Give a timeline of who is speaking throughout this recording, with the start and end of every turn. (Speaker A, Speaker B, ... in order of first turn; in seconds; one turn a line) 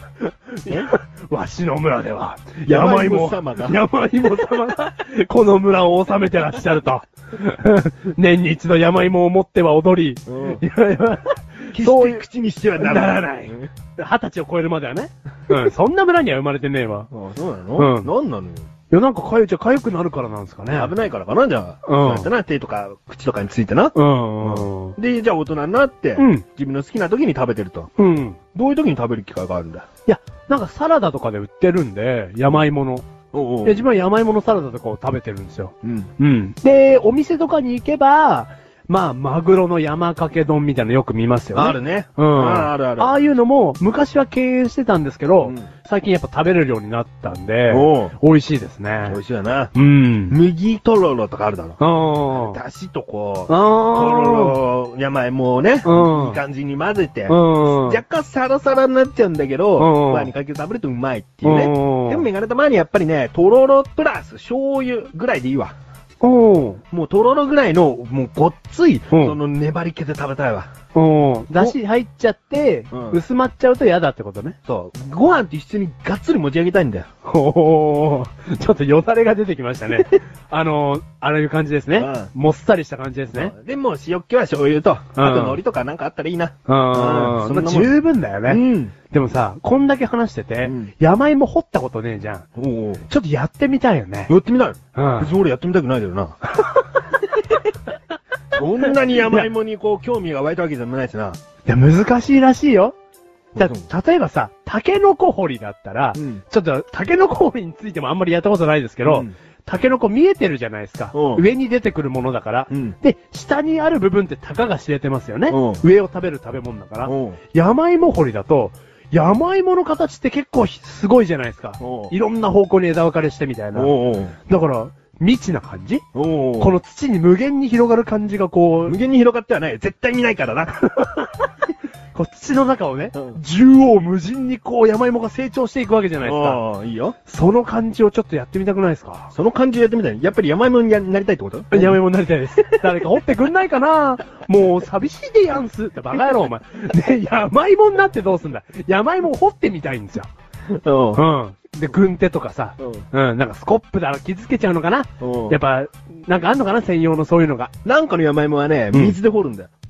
Speaker A: 0.3-12.2
Speaker B: 2.7-3.8
Speaker B: 10.3-10.6
Speaker B: 11.7-13.7
Speaker A: 12.8-17.1
Speaker B: 17.1-18.7
Speaker A: 17.8-18.1
Speaker A: 18.9-20.9
Speaker B: 20.7-27.9
Speaker A: 21.9-22.3
Speaker A: 23.9-25.0
Speaker A: 26.2-26.4
Speaker A: 28.0-28.4
Speaker B: 28.5-29.9
Speaker A: 30.1-33.1
Speaker B: 33.3-33.8
Speaker A: 33.6-49.2
Speaker B: 35.8-36.1
Speaker B: 41.5-43.2
Speaker B: 45.4-45.7
Speaker B: 47.7-48.1
Speaker B: 49.1-49.7
Speaker A: 49.7-50.4
Speaker B: 50.3-65.7
Speaker A: 51.8-52.6
Speaker A: 53.5-54.6
Speaker A: 55.9-56.4
Speaker A: 57.3-58.0
Speaker A: 59.8-60.3
Speaker A: 61.4-62.3
Speaker A: 66.2-66.8
Speaker B: 66.9-70.7
Speaker A: 69.1-69.4
Speaker A: 70.9-74.6
Speaker B: 72.9-73.2
Speaker B: 74.7-77.1
Speaker A: 77.3-83.5
Speaker B: 82.0-82.3
Speaker B: 83.3-88.9
Speaker A: 85.2-85.6
Speaker A: 86.7-92.5
Speaker B: 90.6-90.9
Speaker B: 92.6-93.0
Speaker A: 93.1-94.3
Speaker B: 94.3-96.4
Speaker A: 95.0-95.3
Speaker B: 98.5-101.4
Speaker A: 99.2-99.5
Speaker A: 101.7-103.0
Speaker B: 103.5-103.9
Speaker A: 103.6-126.0
Speaker B: 106.2-106.4
Speaker B: 109.0-109.3
Speaker B: 111.1-111.5
Speaker B: 112.7-113.0
Speaker B: 115.5-115.8
Speaker B: 117.1-117.4
Speaker B: 121.8-122.1
Speaker B: 123.7-124.3
Speaker B: 126.1-126.8
Speaker A: 126.6-129.0
Speaker B: 128.9-130.9
Speaker A: 131.0-131.5
Speaker A: 132.2-136.6
Speaker B: 136.2-137.2
Speaker A: 137.3-139.3
Speaker B: 139.3-142.0
Speaker A: 141.7-150.3
Speaker B: 150.7-151.2
Speaker A: 151.2-157.7
Speaker B: 152.8-153.1
Speaker B: 155.2-155.6
Speaker B: 157.8-159.7